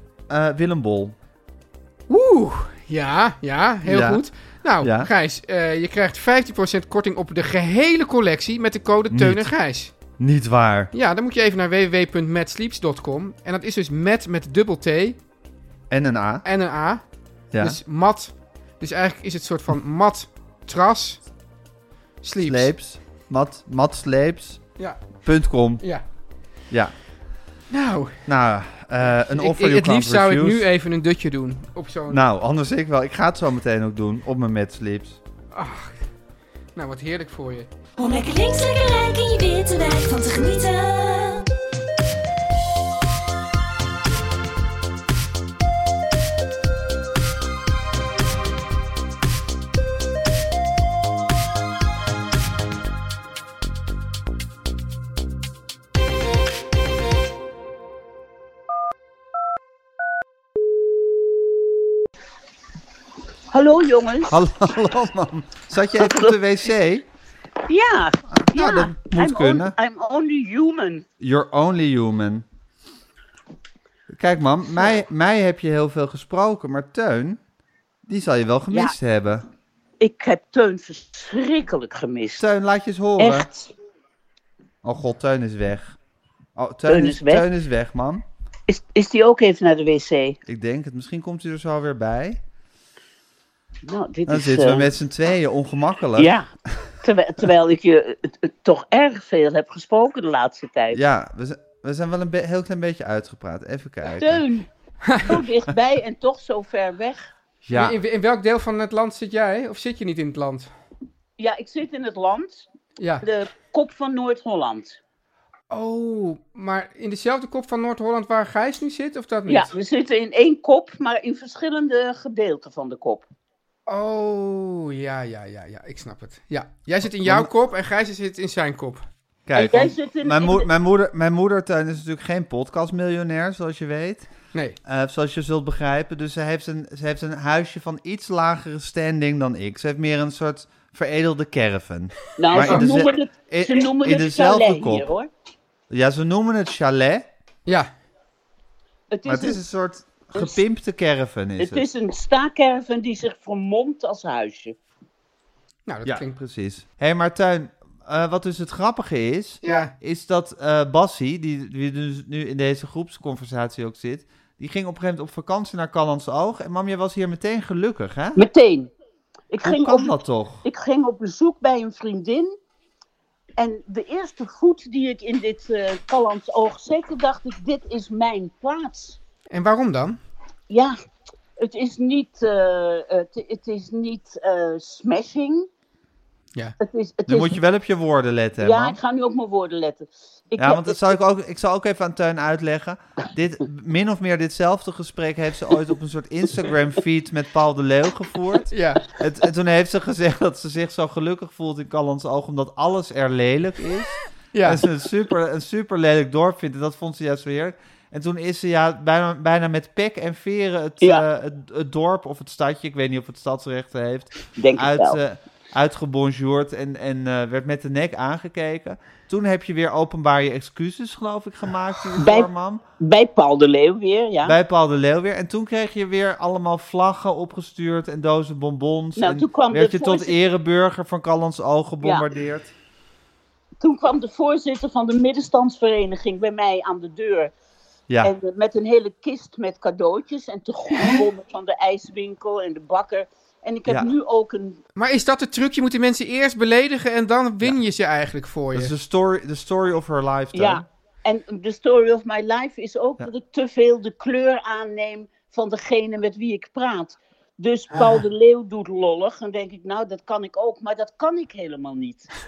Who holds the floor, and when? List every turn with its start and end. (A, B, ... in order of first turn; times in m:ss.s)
0:00.3-0:01.2 A
0:02.1-0:09.9 B
0:03.8-0:04.2 A
0:04.8-0:05.1 A
0:09.1-0:09.5 A
0:10.2-0:10.9 A
0:10.9-0:15.2 B
0:15.9-0:16.4 A
0:16.4-0:17.0 B
0:17.5-0:17.8 A
0:17.6-0:21.2 B
0:22.2-0:22.7 B
0:22.4-0:24.6 A
0:25.2-0:25.8 A
0:27.7-0:28.2 B
0:28.3-0:30.7 A
0:29.3-0:32.2 B
0:32.1-0:35.2 A
0:35.5-0:36.0 B
0:36.8-0:37.7 B
0:38.0-0:41.5 C
1:03.5-1:04.4 D
1:04.3-1:07.1 A
1:06.0-1:06.4 D
1:07.7-1:11.1 D
1:08.3-1:09.8 A
1:11.2-1:12.4 A
1:14.1-1:17.4 A
1:18.1-1:19.4 A
1:20.0-1:22.4 D
1:22.4-1:23.5 A
1:23.2-1:23.7 D
1:24.8-1:26.0 A
1:26.6-1:28.2 A
1:26.9-1:27.5 D
1:28.7-1:30.4 D
1:30.5-1:32.4 A
1:33.8-1:34.9 D
1:34.3-1:36.3 A
1:36.2-1:36.5 D
1:37.0-1:41.0 D
1:40.9-1:44.4 A
1:44.1-1:47.3 D
1:45.0-1:45.4 B
1:47.7-1:48.0 A
1:47.7-1:50.7 B
1:51.4-1:52.7 D
1:53.0-1:53.2 B
1:53.2-1:55.0 D
1:55.7-1:59.7 B
1:59.5-2:03.3 D
2:03.9-2:09.0 B
2:07.2-2:07.5 A
2:09.5-2:14.3 A
2:09.6-2:10.7 D
2:14.8-2:25.1 A
2:22.4-2:25.3 D
2:22.5-2:22.9 B
2:25.9-2:27.3 A
2:27.7-2:27.9 B
2:29.1-2:29.6 D
2:29.3-2:31.8 A
2:31.6-2:34.8 D
2:35.9-2:36.4 B
2:36.0-2:48.4 A
2:39.6-2:39.9 B
2:48.4-2:48.9 D
2:49.5-2:52.6 D
2:49.6-2:50.6 A
2:53.6-2:59.2 D
2:59.5-3:00.2 B
3:00.7-3:01.0 D
3:01.6-3:05.7 D
3:06.8-3:07.6 D
3:07.3-3:09.0 A
3:08.6-3:11.0 D
3:10.6-3:42.8 A
3:18.7-3:19.0 B
3:24.5-3:24.8 B
3:34.6-3:35.2 D
3:42.2-3:42.5 D
3:43.0-3:44.5 D
3:44.4-3:52.7 A
3:49.2-3:50.4 D
3:52.0-3:52.3 D
3:53.8-3:57.5 D
3:58.2-4:04.8 D
4:05.0-4:08.9 B
4:08.7-4:10.8 A
4:10.5-4:22.3 D
4:17.9-4:18.2 B